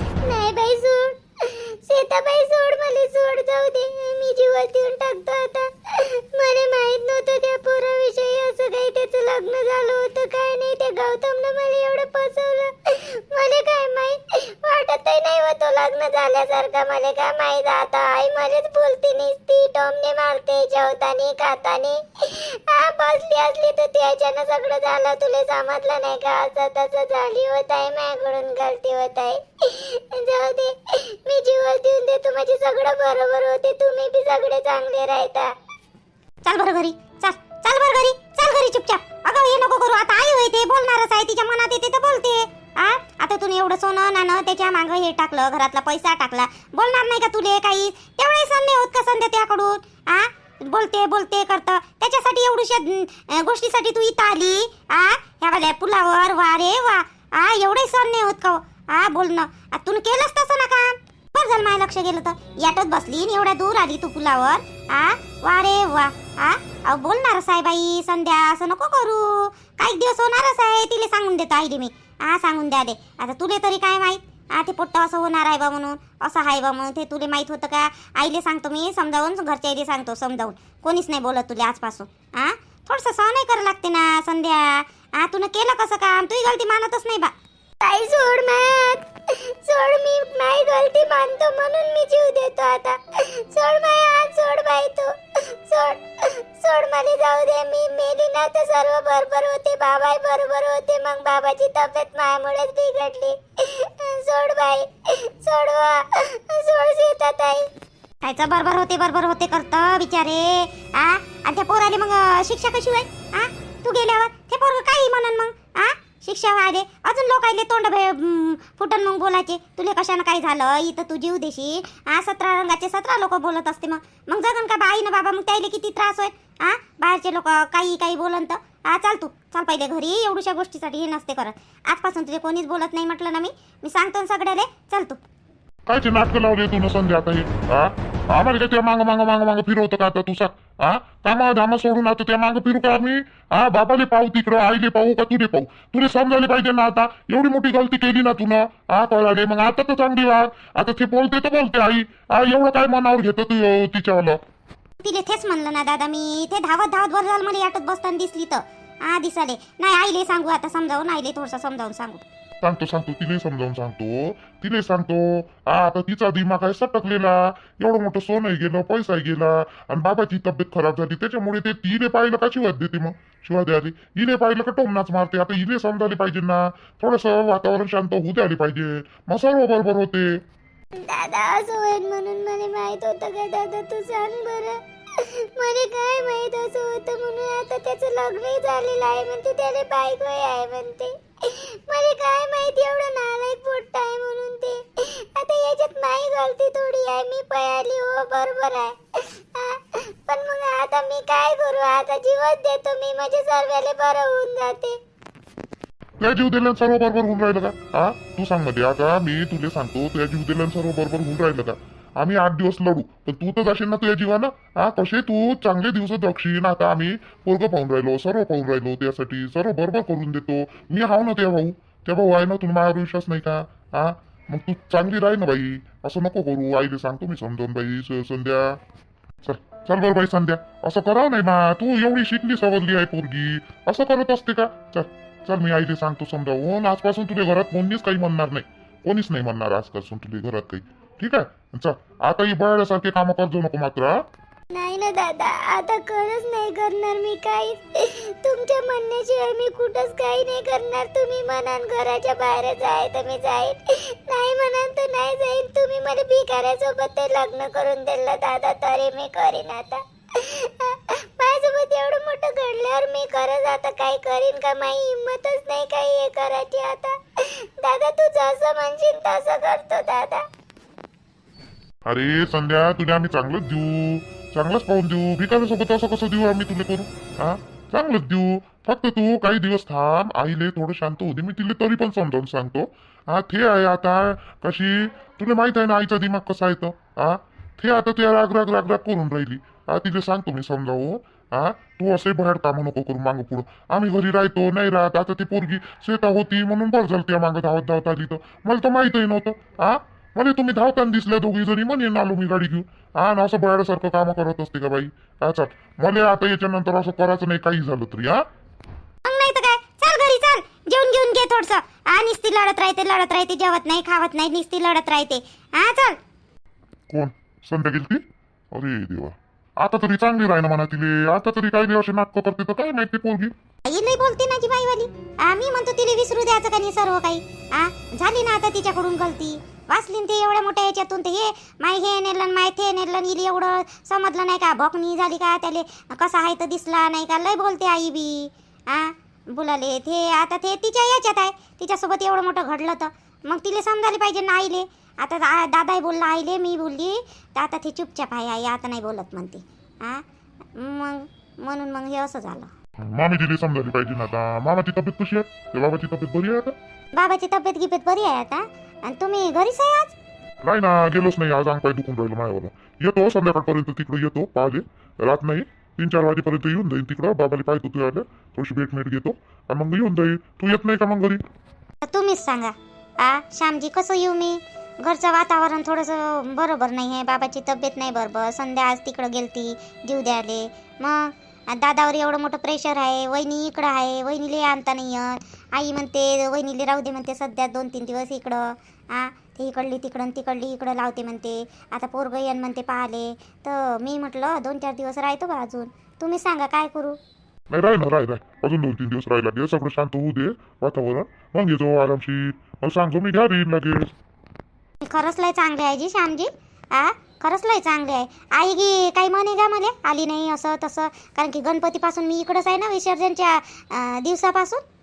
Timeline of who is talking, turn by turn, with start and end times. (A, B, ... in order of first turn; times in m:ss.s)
0:00.2-0:01.2 A
0:01.9-0:05.7 A
0:06.4-0:12.7 A
0:13.3-0:35.5 A
0:36.4-1:27.3 B
1:27.8-1:29.0 A
1:29.6-1:33.0 A
1:33.5-1:35.1 A
1:35.7-1:36.0 A
1:36.6-1:47.7 A
1:48.2-2:15.2 B
2:15.9-2:34.4 C
2:35.0-2:42.2 B
2:42.6-3:00.3 C
3:01.0-3:14.8 A
3:15.4-3:19.0 A
3:19.6-3:25.0 A
3:26.2-3:48.8 C
3:49.4-4:04.2 C
4:04.7-4:27.2 A
4:27.8-4:30.4 A
4:32.1-5:08.4 C
5:09.3-5:16.2 B
5:17.1-5:18.2 C
5:18.7-5:23.5 C
5:23.9-5:50.2 B
5:50.8-5:52.7 B
5:53.1-5:56.8 C
5:57.1-6:00.1 B
6:00.6-6:11.4 C
6:12.0-6:37.2 B
6:37.7-6:44.1 C
6:45.0-6:54.8 B